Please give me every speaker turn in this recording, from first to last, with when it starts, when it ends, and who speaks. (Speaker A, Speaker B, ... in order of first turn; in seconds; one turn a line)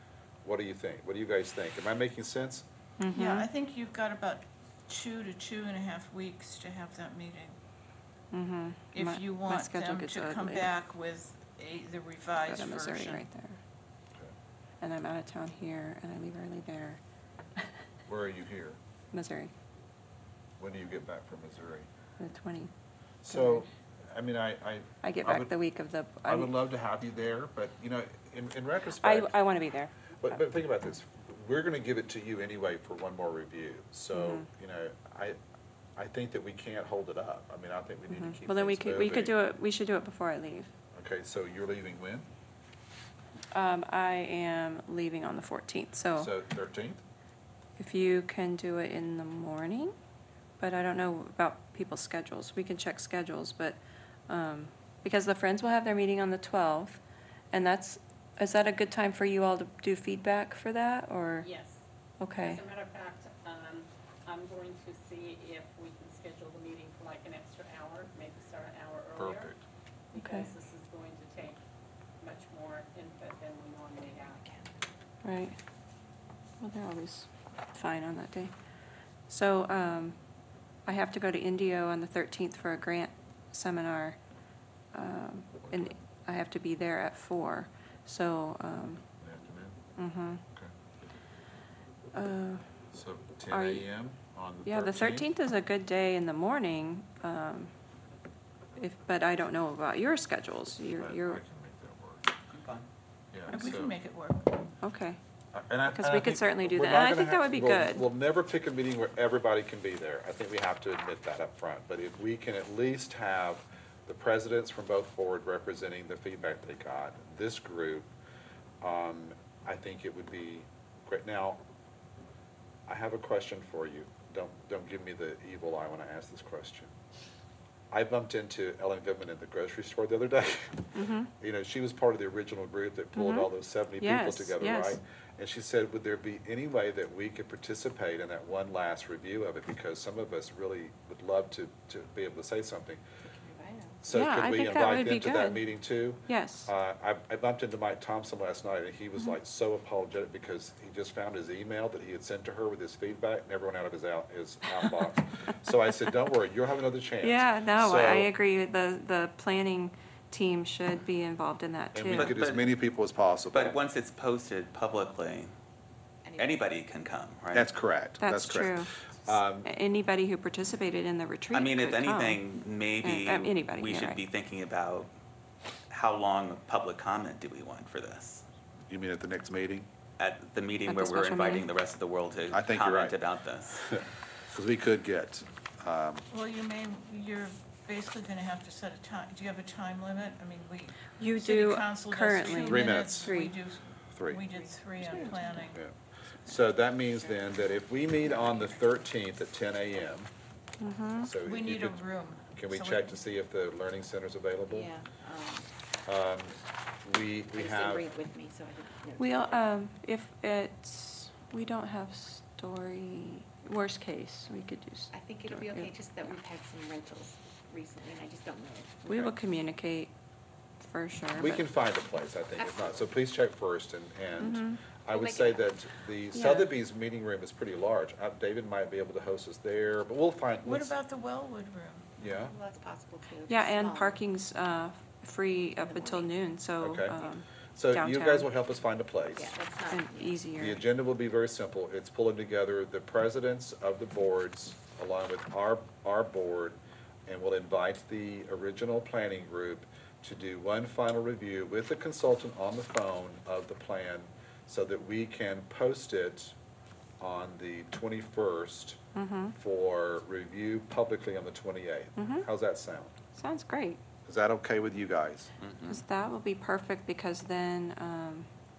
Speaker A: 0.4-2.7
Speaker B: 3.0-3.5
Speaker C: 3.1-7.5
Speaker B: 8.3-10.7
Speaker C: 8.9-13.3
Speaker B: 12.4-13.6
Speaker B: 14.8-17.0
Speaker A: 18.1-18.8
Speaker B: 19.1-19.5
Speaker A: 20.6-21.9
Speaker B: 22.2-22.7
Speaker A: 23.2-25.5
Speaker B: 23.3-23.7
Speaker B: 25.0-26.5
Speaker A: 26.3-29.4
Speaker B: 29.0-30.4
Speaker A: 30.2-35.4
Speaker B: 34.1-34.5
Speaker A: 36.0-39.4
Speaker B: 38.1-40.7
Speaker A: 41.0-42.3
Speaker B: 43.5-46.3
Speaker A: 46.2-47.0
Speaker B: 47.8-50.0
Speaker B: 50.6-57.0
Speaker B: 57.5-61.5
Speaker D: 61.4-61.8
Speaker B: 62.2-62.6
Speaker D: 62.4-69.5
Speaker A: 69.2-69.6
Speaker D: 70.1-71.6
Speaker B: 70.2-70.5
Speaker D: 72.2-74.5
Speaker B: 75.2-75.6
Speaker B: 76.6-78.5
Speaker B: 79.3-80.2
Speaker B: 80.9-84.2
Speaker B: 84.9-89.0
Speaker A: 85.6-85.9
Speaker A: 89.2-89.8
Speaker B: 90.0-90.4
Speaker B: 92.1-92.6
Speaker A: 92.9-95.3
Speaker B: 93.5-93.9
Speaker B: 94.7-97.7
Speaker B: 98.8-101.4
Speaker A: 101.0-102.3
Speaker E: 102.5-102.9
Speaker A: 103.3-104.0
Speaker C: 103.5-104.5
Speaker B: 104.8-105.2
Speaker A: 105.5-118.1
Speaker B: 105.9-108.1
Speaker A: 118.8-121.6
Speaker A: 122.9-126.9
Speaker A: 127.9-130.9
Speaker B: 130.9-131.3
Speaker A: 131.4-143.0
Speaker B: 133.2-133.5
Speaker B: 134.0-135.0
Speaker F: 143.2-144.0
Speaker A: 144.0-158.3
Speaker B: 144.1-145.7
Speaker B: 146.3-146.7
Speaker B: 157.2-162.3
Speaker A: 161.9-163.8
Speaker E: 162.1-162.7
Speaker E: 163.5-165.5
Speaker F: 166.2-166.7
Speaker E: 166.4-167.7
Speaker A: 167.5-169.7
Speaker B: 168.2-168.9
Speaker B: 169.5-172.5
Speaker E: 171.5-175.1
Speaker B: 173.0-174.2
Speaker E: 175.9-178.4
Speaker A: 178.9-179.9
Speaker E: 180.2-183.8
Speaker B: 180.8-181.7
Speaker A: 182.5-183.2
Speaker A: 183.8-186.2
Speaker C: 186.3-195.8
Speaker B: 191.2-193.5
Speaker A: 192.6-193.3
Speaker A: 194.2-194.4
Speaker F: 194.5-195.8
Speaker A: 195.1-200.3
Speaker F: 198.3-198.8
Speaker B: 200.8-201.3
Speaker A: 201.2-204.9
Speaker C: 201.4-203.1
Speaker F: 204.7-205.9
Speaker A: 206.1-208.1
Speaker F: 207.6-209.6
Speaker B: 209.2-215.9
Speaker F: 215.1-219.3
Speaker B: 219.1-220.1
Speaker B: 220.8-221.7
Speaker A: 221.4-230.9
Speaker F: 222.6-223.0
Speaker B: 224.4-224.8
Speaker F: 225.1-225.7
Speaker B: 226.3-226.7
Speaker C: 230.7-232.2
Speaker A: 232.2-232.5
Speaker F: 232.3-234.2
Speaker B: 233.5-238.5
Speaker F: 235.8-236.3
Speaker A: 236.8-237.2
Speaker A: 237.8-239.5
Speaker F: 239.4-240.5
Speaker B: 239.9-240.8
Speaker A: 240.6-256.6
Speaker A: 257.2-259.0
Speaker B: 259.1-259.6
Speaker A: 259.6-263.1
Speaker B: 262.2-262.5
Speaker B: 263.4-264.0
Speaker A: 264.3-265.5
Speaker E: 265.6-266.0
Speaker B: 265.9-268.5